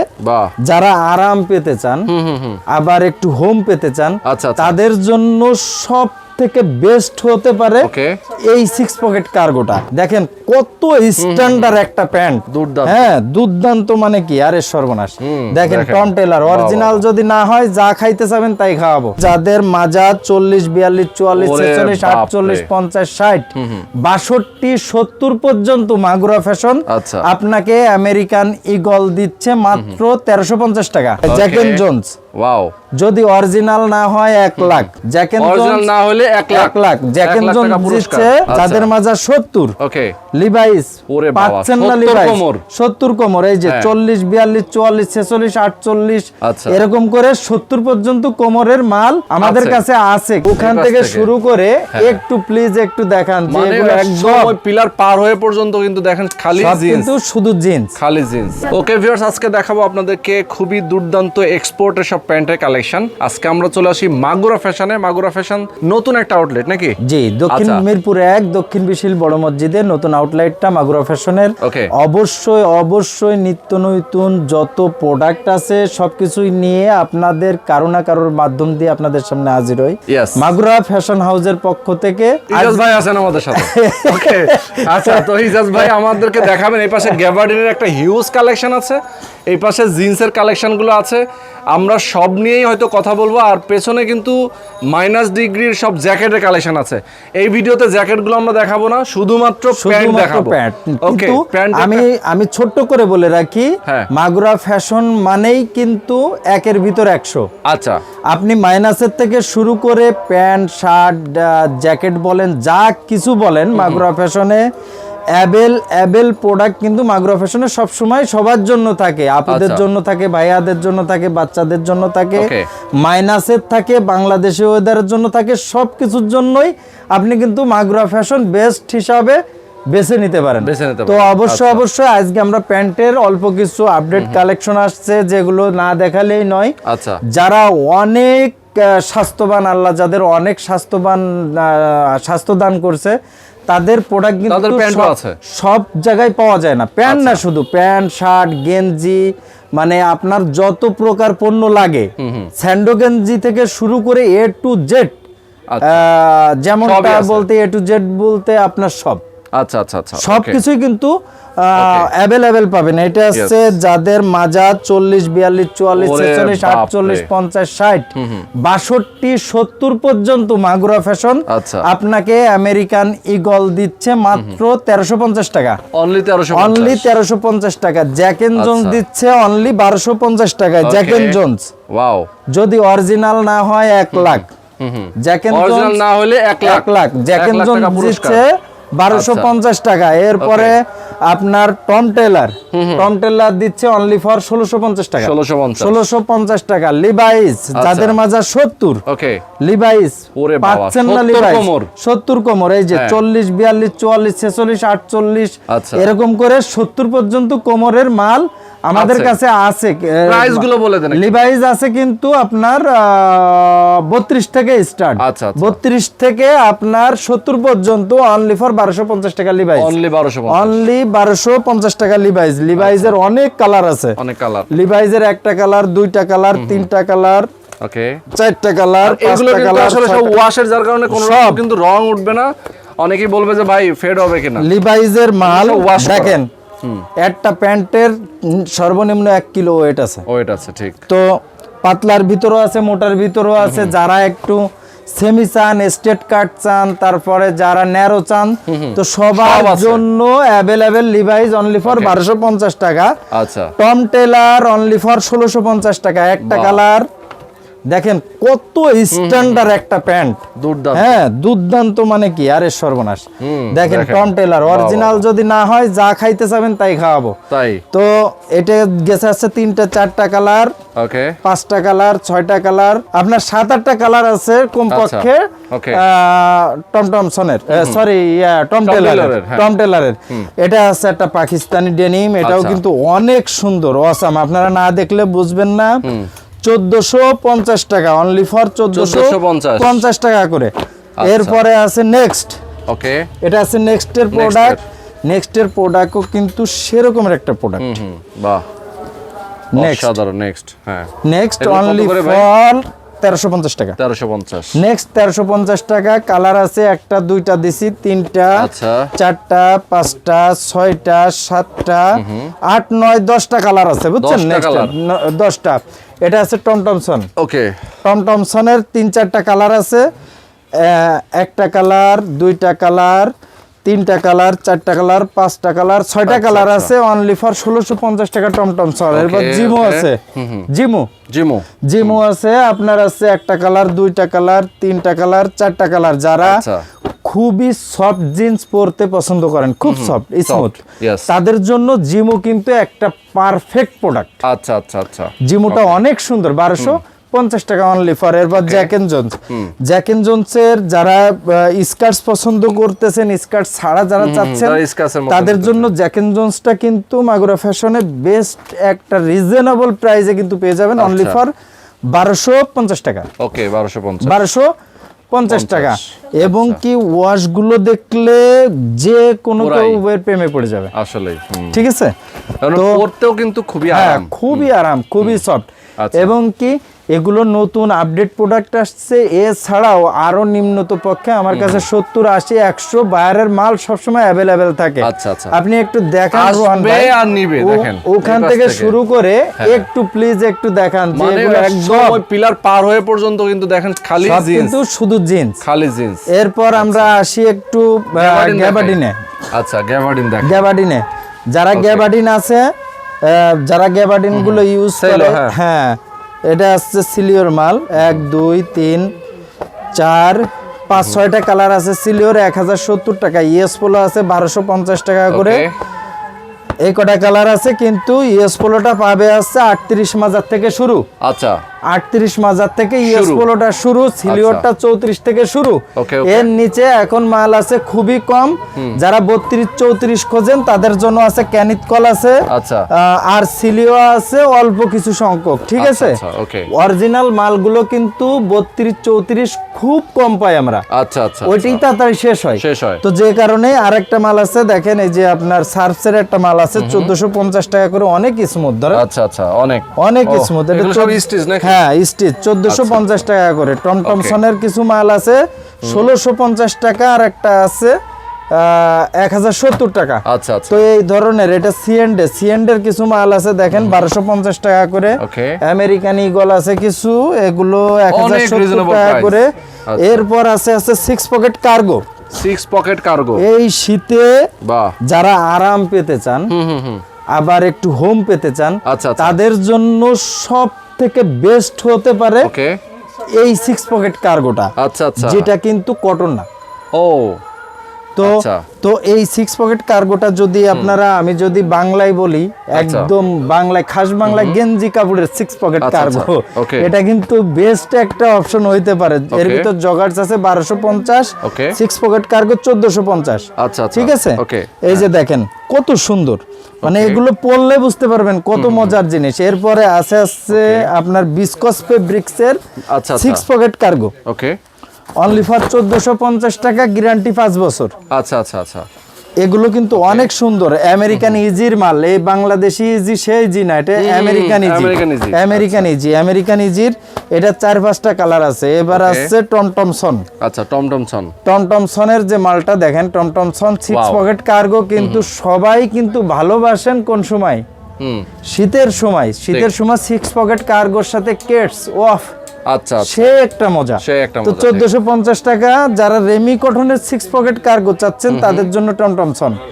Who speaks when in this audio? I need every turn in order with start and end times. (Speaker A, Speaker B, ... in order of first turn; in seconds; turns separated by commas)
Speaker A: 0.2-0.5, Speaker B: 0.6-2.1, Speaker A: 2.1-2.6, Speaker B: 2.7-7.9, Speaker A: 4.3-4.8, Speaker A: 7.8-8.2, Speaker B: 8.5-23.5, Speaker A: 11.2-11.8, Speaker A: 12.5-13.1, Speaker A: 15.2-17.0, Speaker A: 21.4-22.7, Speaker A: 23.6-23.9, Speaker B: 24.0-32.2, Speaker A: 26.9-27.3, Speaker A: 29.7-30.0, Speaker A: 31.2-32.7, Speaker B: 33.0-35.9, Speaker A: 34.6-38.9, Speaker B: 36.5-39.8, Speaker A: 39.8-40.2, Speaker B: 40.3-54.5, Speaker A: 41.1-42.6, Speaker A: 43.6-43.9, Speaker A: 46.4-46.8, Speaker A: 49.4-49.8, Speaker A: 50.5-51.3, Speaker A: 51.9-52.2, Speaker A: 53.5-57.1, Speaker B: 56.5-57.9, Speaker A: 58.0-67.0, Speaker B: 67.0-86.5, Speaker A: 67.5-67.8, Speaker A: 71.6-71.9, Speaker A: 80.1-80.5, Speaker A: 82.5-102.1, Speaker B: 99.7-107.5, Speaker A: 107.7-108.0, Speaker B: 108.3-114.6, Speaker A: 113.8-114.0, Speaker B: 115.4-129.4, Speaker A: 119.5-119.8, Speaker A: 122.4-122.7, Speaker B: 129.9-136.8, Speaker A: 130.6-131.8, Speaker A: 134.1-134.4, Speaker A: 136.9-137.2, Speaker B: 137.3-143.2, Speaker B: 143.7-149.2, Speaker A: 144.5-145.4, Speaker A: 147.1-147.4, Speaker B: 149.8-155.2, Speaker A: 152.2-152.5, Speaker A: 155.7-156.0, Speaker B: 155.8-159.2, Speaker A: 156.8-157.5, Speaker A: 159.5-160.6, Speaker B: 160.2-168.1, Speaker A: 161.8-162.1, Speaker A: 166.0-167.3, Speaker A: 168.2-168.5, Speaker B: 168.6-175.8, Speaker A: 171.5-171.9, Speaker A: 175.9-177.1, Speaker B: 176.5-181.7, Speaker A: 178.6-179.0, Speaker A: 180.8-182.3, Speaker B: 182.5-184.5, Speaker A: 184.1-188.4, Speaker B: 185.2-186.0, Speaker B: 186.6-199.0, Speaker A: 189.1-189.5, Speaker A: 190.4-190.8, Speaker A: 192.7-193.1, Speaker A: 195.2-196.1, Speaker A: 197.8-198.2, Speaker A: 199.1-199.4, Speaker B: 199.6-219.9, Speaker A: 200.3-201.9, Speaker A: 202.9-203.2, Speaker A: 205.7-206.1, Speaker A: 208.9-209.4, Speaker A: 210.3-211.4, Speaker A: 215.2-215.8, Speaker A: 219.8-220.8, Speaker B: 220.5-224.2, Speaker A: 222.8-223.2, Speaker A: 224.2-224.7, Speaker B: 224.7-227.5, Speaker A: 226.5-226.9, Speaker A: 227.8-228.2, Speaker B: 228.3-230.4, Speaker A: 229.0-234.7, Speaker B: 231.1-231.6, Speaker B: 234.6-236.5, Speaker A: 235.4-237.1, Speaker B: 237.2-240.2, Speaker A: 240.3-241.0, Speaker B: 241.1-253.1, Speaker A: 243.6-244.0, Speaker A: 248.7-250.0, Speaker A: 251.8-252.2, Speaker A: 253.3-253.7, Speaker B: 253.8-257.1, Speaker A: 256.4-256.8, Speaker B: 257.9-260.4, Speaker A: 259.1-259.7, Speaker A: 260.6-261.2, Speaker B: 260.9-267.4, Speaker A: 263.4-265.2, Speaker A: 267.5-267.8, Speaker B: 267.9-270.7, Speaker A: 271.0-271.4, Speaker B: 271.4-286.1, Speaker A: 274.9-276.0, Speaker A: 277.7-278.0, Speaker A: 278.8-279.7, Speaker A: 282.4-282.8, Speaker A: 286.0-286.3, Speaker B: 286.6-292.6, Speaker A: 288.9-290.0, Speaker A: 291.2-291.6, Speaker A: 292.9-293.3, Speaker B: 293.4-297.9, Speaker A: 294.3-294.8, Speaker A: 297.8-298.6, Speaker B: 299.7-300.2, Speaker A: 299.8-302.5, Speaker B: 301.2-304.0, Speaker A: 304.0-304.8, Speaker B: 304.8-317.3, Speaker A: 308.6-309.1, Speaker A: 312.2-312.5, Speaker A: 314.2-314.9, Speaker A: 317.4-317.8, Speaker B: 318.0-320.1, Speaker B: 320.8-323.3, Speaker B: 323.9-331.1, Speaker A: 326.3-326.9, Speaker A: 329.1-330.7, Speaker A: 331.3-332.2, Speaker B: 331.9-336.6, Speaker A: 336.4-336.9, Speaker B: 337.2-344.3, Speaker A: 339.9-341.3, Speaker A: 344.4-346.0, Speaker B: 345.4-361.5, Speaker A: 348.5-348.9, Speaker A: 354.2-355.9, Speaker A: 361.0-361.4, Speaker B: 362.1-363.3, Speaker A: 363.4-364.4, Speaker B: 364.2-364.7, Speaker B: 365.3-370.9, Speaker A: 365.5-366.8, Speaker A: 369.6-370.0, Speaker A: 370.9-371.8, Speaker B: 371.7-372.1, Speaker A: 372.6-374.7, Speaker B: 372.7-373.0, Speaker B: 373.9-392.2, Speaker A: 376.0-376.3, Speaker A: 381.5-381.9, Speaker A: 385.0-385.6, Speaker A: 386.3-389.0, Speaker A: 389.6-389.9, Speaker A: 391.1-394.8, Speaker B: 394.2-395.6, Speaker A: 395.6-397.1, Speaker B: 396.3-399.2, Speaker A: 398.1-399.0, Speaker A: 399.5-400.7, Speaker B: 400.4-402.7, Speaker A: 401.7-402.1, Speaker B: 403.2-409.1, Speaker A: 404.3-405.6, Speaker B: 409.9-415.6, Speaker A: 410.9-411.2, Speaker A: 415.3-415.8, Speaker B: 416.9-421.1, Speaker A: 421.2-421.6, Speaker B: 421.9-436.2, Speaker A: 423.0-423.5, Speaker A: 424.3-424.7, Speaker A: 426.0-426.5, Speaker A: 432.5-432.9, Speaker A: 435.8-436.7, Speaker B: 436.7-440.9, Speaker A: 440.9-441.8, Speaker B: 441.5-449.0, Speaker A: 442.6-443.0, Speaker A: 446.8-447.1, Speaker A: 448.9-451.8, Speaker B: 450.0-457.9, Speaker A: 452.7-453.0, Speaker A: 454.0-454.4, Speaker B: 458.5-472.0, Speaker A: 460.3-460.8, Speaker A: 463.7-464.0, Speaker A: 465.2-465.6, Speaker A: 468.1-470.2, Speaker A: 472.3-473.4, Speaker B: 473.4-474.3, Speaker A: 474.6-474.9, Speaker B: 475.0-476.5, Speaker A: 476.5-477.0, Speaker B: 477.4-482.5, Speaker A: 478.9-479.4, Speaker A: 482.4-482.8, Speaker B: 483.4-486.5, Speaker A: 484.8-485.5, Speaker A: 486.9-487.4, Speaker B: 488.2-512.6, Speaker A: 488.2-488.6, Speaker A: 492.8-493.1, Speaker A: 494.2-494.6, Speaker A: 495.8-496.9, Speaker A: 499.3-499.7, Speaker A: 501.4-501.8, Speaker A: 503.6-505.1, Speaker A: 506.8-507.2, Speaker A: 508.6-509.0, Speaker A: 510.5-510.9, Speaker A: 512.9-513.4, Speaker B: 513.2-514.1, Speaker A: 514.2-514.6, Speaker B: 515.2-517.9, Speaker A: 518.1-518.9, Speaker B: 519.4-530.3, Speaker A: 520.0-520.3, Speaker A: 521.1-521.4, Speaker A: 524.0-525.9, Speaker A: 528.9-529.3, Speaker A: 530.4-531.3, Speaker B: 531.5-537.6, Speaker A: 533.9-534.2, Speaker A: 535.0-535.3, Speaker A: 538.0-538.3, Speaker B: 538.5-542.3, Speaker A: 542.7-543.3, Speaker B: 543.0-549.6, Speaker A: 544.0-544.9, Speaker A: 548.3-548.7